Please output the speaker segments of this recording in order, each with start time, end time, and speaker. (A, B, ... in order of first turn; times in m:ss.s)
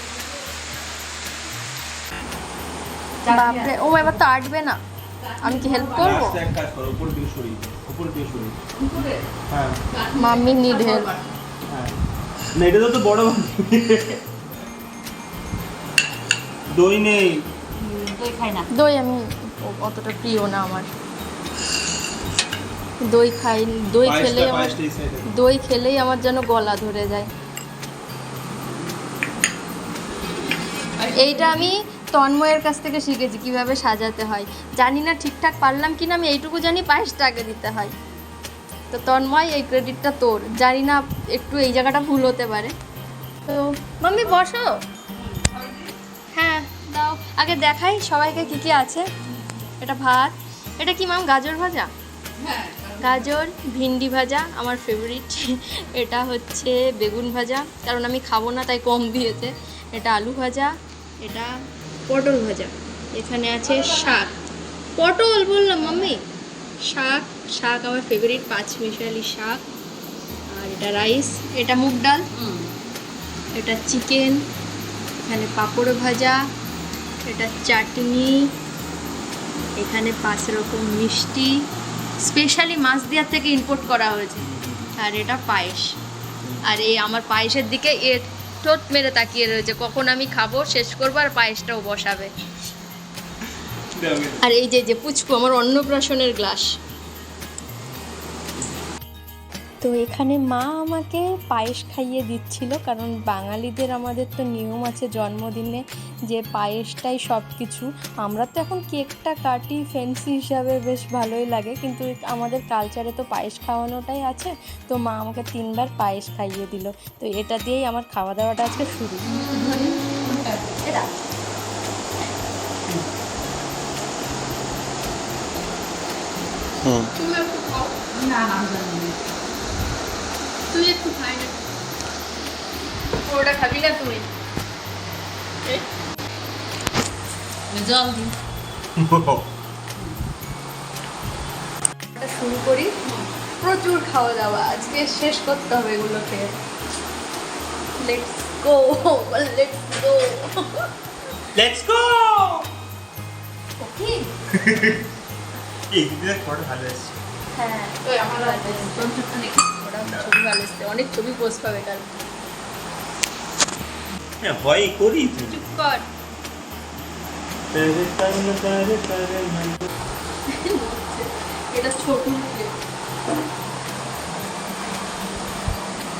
0:03.2-0:04.1 A
0:03.2-0:04.8 B
0:05.2-0:06.3 A
0:05.4-0:06.4 B
0:06.0-0:08.6 C
0:08.8-0:09.2 A
0:09.5-0:09.8 C
0:09.9-0:11.3 A
0:10.1-0:11.1 B
0:11.7-0:12.0 C
0:12.6-0:14.2 C
0:16.7-0:17.4 C
0:17.8-0:18.7 A
0:18.7-0:20.9 B
0:23.0-0:27.3 B
0:24.0-0:25.3 C
0:31.0-0:31.7 A
0:31.1-0:37.9 B
0:38.9-0:42.7 B
0:43.4-0:44.8 B
0:45.2-0:45.9 A
0:46.3-0:49.1 B
0:49.8-0:51.9 B
0:52.4-0:53.3 A
0:53.0-1:01.5 B
1:02.1-1:04.3 B
1:03.7-1:04.3 A
1:05.0-1:06.2 B
1:06.9-1:09.6 B
1:10.5-1:12.3 B
1:12.3-1:12.7 A
1:13.6-1:14.4 B
1:15.2-1:16.4 B
1:17.2-1:18.5 B
1:19.8-1:21.6 B
1:22.2-1:25.9 B
1:24.5-1:24.9 C
1:26.6-1:32.3 B
1:34.0-1:34.4 C
1:34.4-1:36.7 B
1:39.8-1:59.4 B
1:59.2-2:01.1 A
2:06.8-2:07.1 C
2:07.2-2:07.9 B
2:08.1-2:09.2 A
2:10.7-2:11.6 B
2:13.2-2:14.3 B
2:17.7-2:18.3 A
2:19.0-2:19.4 C
2:22.2-2:22.9 B
2:23.0-2:23.3 A
2:23.6-2:26.6 B
2:28.0-2:30.9 B
2:31.5-2:32.7 C
2:33.8-2:34.3 B
2:34.5-2:35.0 C
2:35.9-2:37.1 C
2:37.5-2:42.1 B
2:38.0-2:39.6 A
2:40.0-2:40.3 C
2:44.4-2:45.6 C
2:45.5-2:46.0 B
2:47.7-2:49.9 C
2:50.5-2:52.8 B